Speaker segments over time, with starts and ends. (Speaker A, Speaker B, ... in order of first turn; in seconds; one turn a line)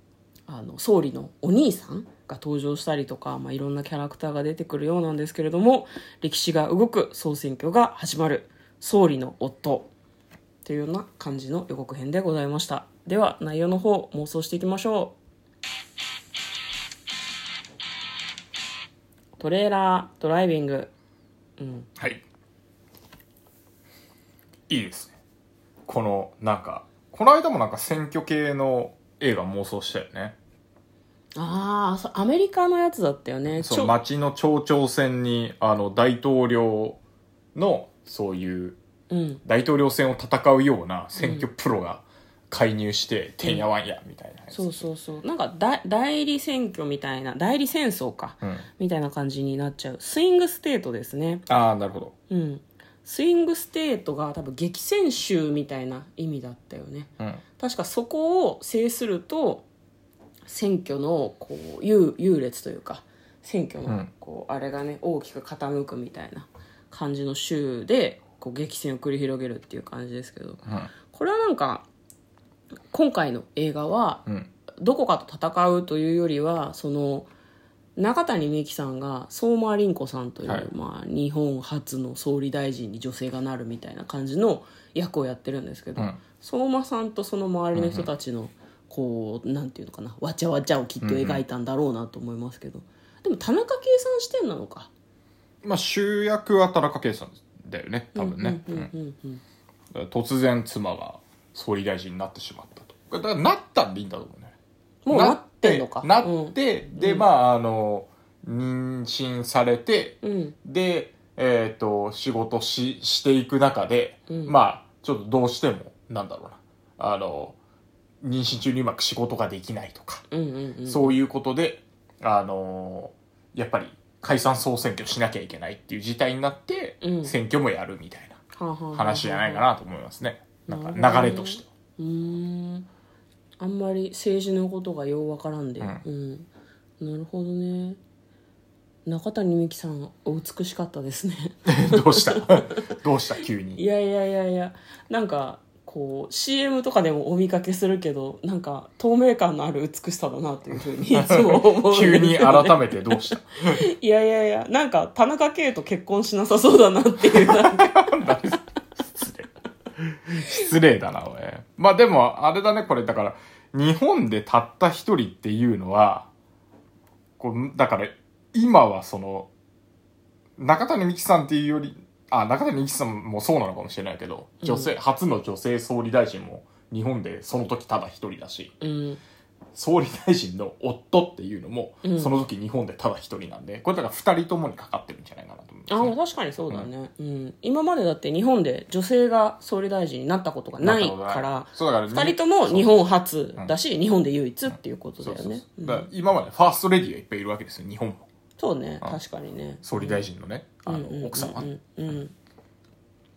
Speaker A: 0.5-9.9
Speaker A: 10.7-15.2
Speaker A: 19.4-20.9
Speaker A: 21.6-21.9
Speaker B: 22.0-22.2
Speaker B: 24.7-25.2
Speaker B: 25.9-30.4
Speaker A: 31.4-34.0
Speaker B: 33.6-37.0
Speaker B: 37.5-38.8
Speaker A: 39.1-39.4
Speaker B: 39.5-44.8
Speaker A: 41.2-41.5
Speaker A: 44.5-51.5
Speaker B: 51.5-52.1
Speaker A: 52.3-59.7
Speaker A: 60.5-71.9
Speaker B: 70.7-70.9
Speaker A: 72.9-74.2
Speaker A: 74.8-77.3
Speaker A: 78.0-94.9
Speaker B: 87.7-88.1
Speaker B: 91.0-91.4
Speaker B: 95.6-98.9
Speaker A: 98.1-99.4
Speaker B: 99.9-104.5
Speaker A: 105.1-107.3
Speaker B: 105.1-117.6
Speaker A: 110.2-110.5
Speaker A: 114.3-114.6
Speaker B: 118.2-120.2
Speaker A: 120.3-121.2
Speaker B: 120.9-128.4
Speaker A: 127.0-127.3
Speaker A: 128.5-129.7
Speaker B: 128.9-131.7
Speaker A: 130.7-132.9
Speaker A: 133.6-136.5
Speaker B: 135.8-136.1
Speaker A: 137.0-138.0
Speaker A: 139.1-142.8
Speaker B: 141.7-143.8
Speaker A: 143.8-158.0
Speaker B: 151.2-153.8
Speaker B: 157.4-166.3
Speaker B: 167.4-169.5
Speaker B: 170.6-178.8
Speaker A: 174.6-174.9
Speaker A: 178.8-179.2
Speaker B: 179.7-186.2
Speaker A: 182.0-182.3
Speaker A: 185.9-196.1
Speaker B: 190.8-193.7
Speaker B: 194.7-198.3
Speaker A: 198.6-200.2
Speaker B: 199.8-202.2
Speaker A: 200.8-202.3